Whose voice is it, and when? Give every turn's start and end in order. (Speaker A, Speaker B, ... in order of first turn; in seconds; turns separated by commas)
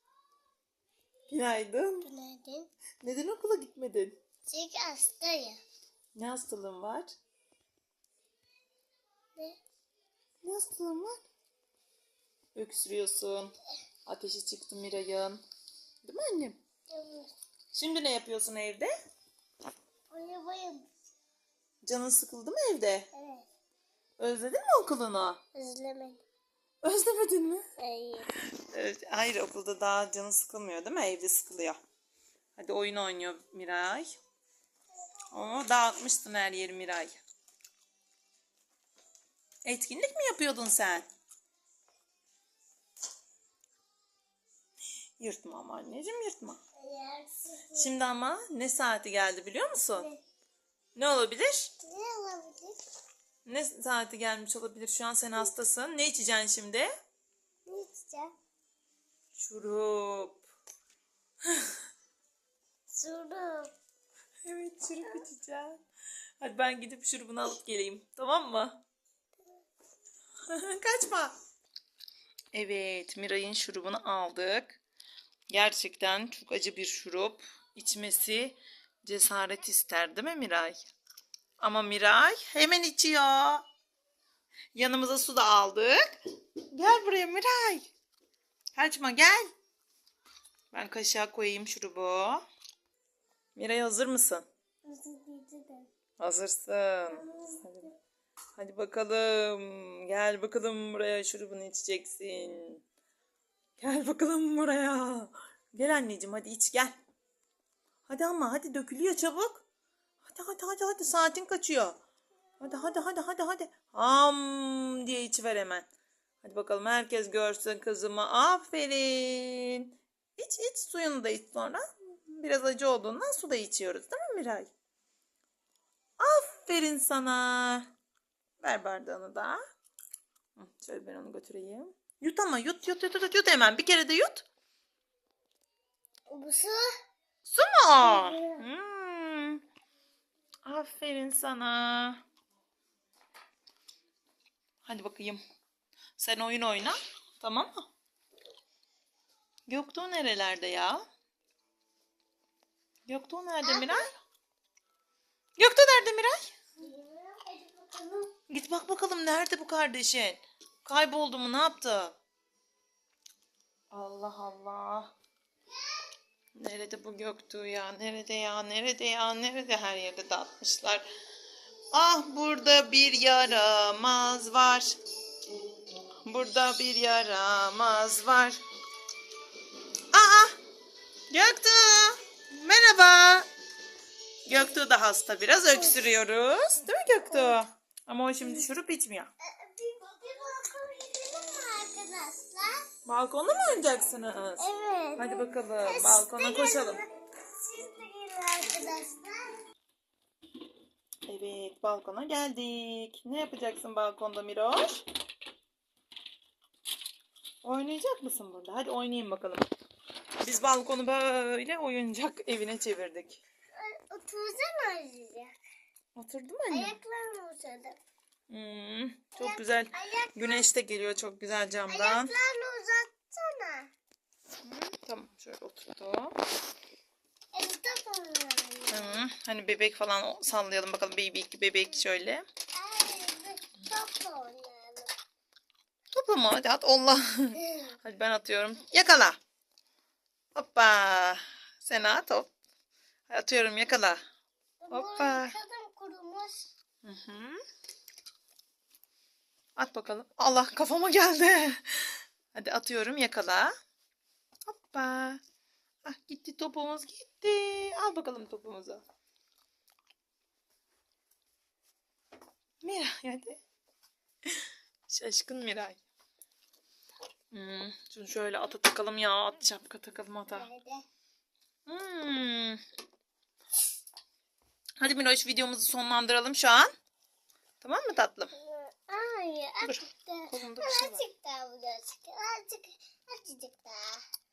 Speaker A: 1.3-2.1, Speaker B: 2.0-2.7, Speaker A: 3.0-4.1, Speaker B: 4.5-5.6, Speaker A: 6.1-7.1, Speaker A: 10.4-11.2, Speaker A: 12.5-13.5, Speaker A: 14.1-15.4, Speaker A: 16.0-16.6, Speaker B: 16.9-17.3, Speaker A: 17.7-18.9, Speaker B: 20.1-20.9, Speaker A: 21.8-23.1, Speaker B: 23.1-23.4, Speaker A: 24.2-25.4, Speaker B: 25.5-26.2, Speaker A: 26.8-27.6, Speaker B: 27.8-28.3, Speaker A: 28.5-31.8, Speaker A: 32.5-34.2, Speaker A: 35.3-37.1, Speaker A: 39.6-41.0, Speaker A: 45.2-46.6, Speaker B: 46.8-47.9, Speaker A: 47.7-50.1, Speaker A: 50.9-51.7, Speaker B: 51.8-52.8, Speaker A: 53.5-56.9, Speaker B: 57.7-58.3, Speaker A: 59.3-60.4, Speaker B: 62.9-63.7, Speaker A: 64.4-65.8, Speaker A: 66.4-68.8, Speaker A: 70.5-71.3, Speaker A: 72.5-74.8, Speaker A: 75.5-80.8, Speaker A: 81.6-83.6, Speaker A: 84.7-86.2, Speaker A: 86.7-87.9, Speaker A: 88.7-89.5, Speaker A: 90.7-92.4, Speaker A: 93.5-94.4, Speaker B: 94.8-95.9, Speaker A: 96.2-97.9, Speaker B: 97.1-97.7, Speaker A: 98.5-102.8, Speaker A: 103.8-106.9, Speaker A: 108.1-109.6, Speaker A: 110.2-112.0, Speaker A: 112.6-115.9, Speaker A: 116.4-124.7, Speaker A: 126.2-127.9, Speaker A: 128.6-129.6, Speaker A: 130.6-134.4, Speaker B: 136.3-136.9, Speaker A: 137.4-139.6, Speaker B: 138.0-138.6, Speaker A: 140.6-142.2, Speaker A: 144.8-145.4, Speaker A: 146.2-147.8, Speaker A: 149.7-151.0, Speaker A: 153.1-154.1, Speaker B: 153.6-154.0, Speaker A: 155.6-156.5, Speaker B: 156.8-158.3, Speaker A: 158.5-162.2, Speaker A: 163.9-165.1, Speaker A: 166.6-171.0, Speaker A: 171.9-174.9, Speaker A: 176.2-178.6, Speaker A: 180.1-180.6, Speaker A: 181.3-183.5, Speaker A: 184.4-189.3, Speaker B: 185.7-186.0, Speaker B: 187.3-187.6, Speaker B: 189.4-192.9, Speaker A: 193.1-197.0, Speaker B: 194.6-199.6, Speaker A: 201.3-205.0, Speaker A: 207.6-209.6, Speaker A: 210.4-213.4, Speaker B: 213.8-215.5, Speaker A: 216.2-216.9, Speaker B: 216.7-218.0, Speaker A: 218.5-222.3, Speaker B: 219.4-220.7, Speaker B: 221.9-223.9, Speaker A: 224.6-226.3, Speaker B: 227.5-229.2, Speaker A: 228.9-232.4, Speaker B: 232.7-235.1, Speaker A: 236.1-239.4, Speaker A: 240.5-242.5, Speaker A: 243.3-244.2, Speaker B: 244.8-246.7, Speaker A: 244.9-245.5, Speaker A: 247.0-247.6, Speaker A: 249.8-253.7, Speaker A: 254.7-255.4, Speaker A: 256.0-259.0, Speaker A: 262.8-263.6, Speaker A: 264.5-266.0, Speaker A: 267.5-270.7, Speaker B: 270.5-271.0, Speaker A: 271.9-272.8, Speaker A: 275.0-276.9, Speaker A: 277.8-278.5, Speaker B: 278.6-284.2, Speaker A: 279.8-281.2